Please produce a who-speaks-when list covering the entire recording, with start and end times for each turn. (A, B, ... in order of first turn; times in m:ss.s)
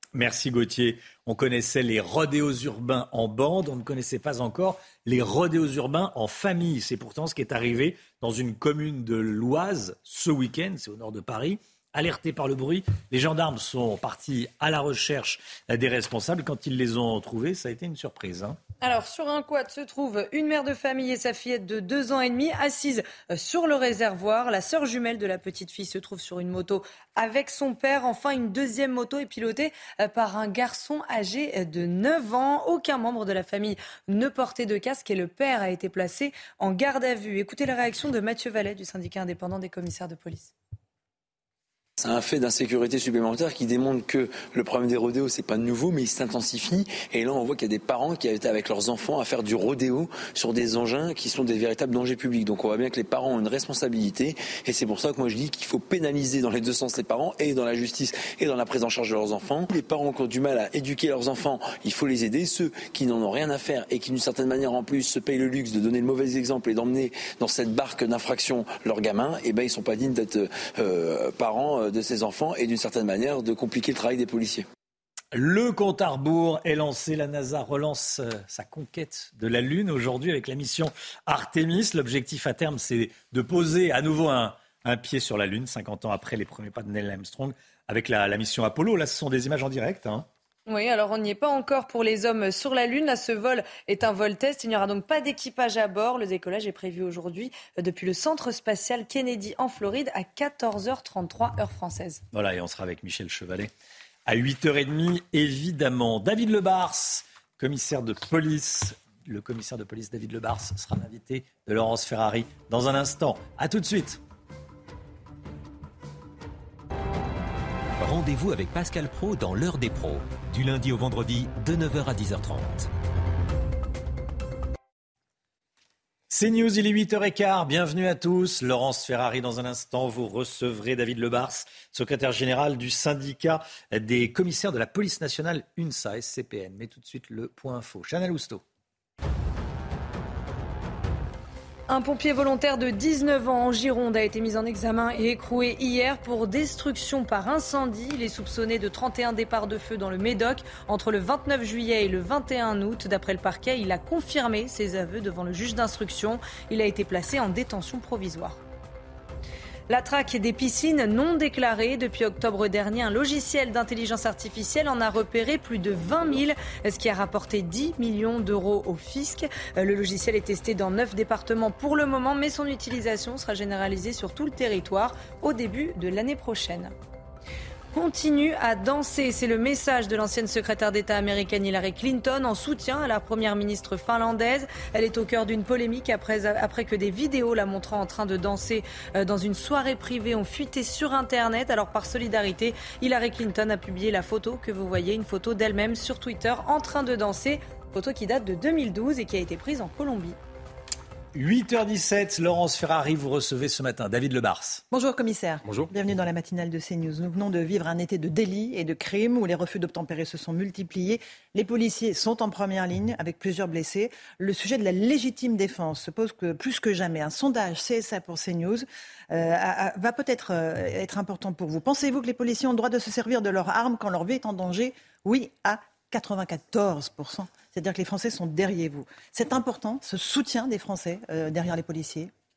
0:00.1-0:18.6 A
0:18.8-0:40.5 B
0:42.0-1:14.6 C
1:15.3-1:30.2 A
1:30.7-1:42.2 B
1:42.3-1:43.7 A
1:44.2-1:54.2 A
1:58.0-2:02.9 D
2:06.3-2:18.6 A
2:21.9-2:38.6 B
2:39.9-2:56.9 B
2:57.9-3:20.4 B
3:21.3-3:24.8 A
3:24.9-3:52.3 E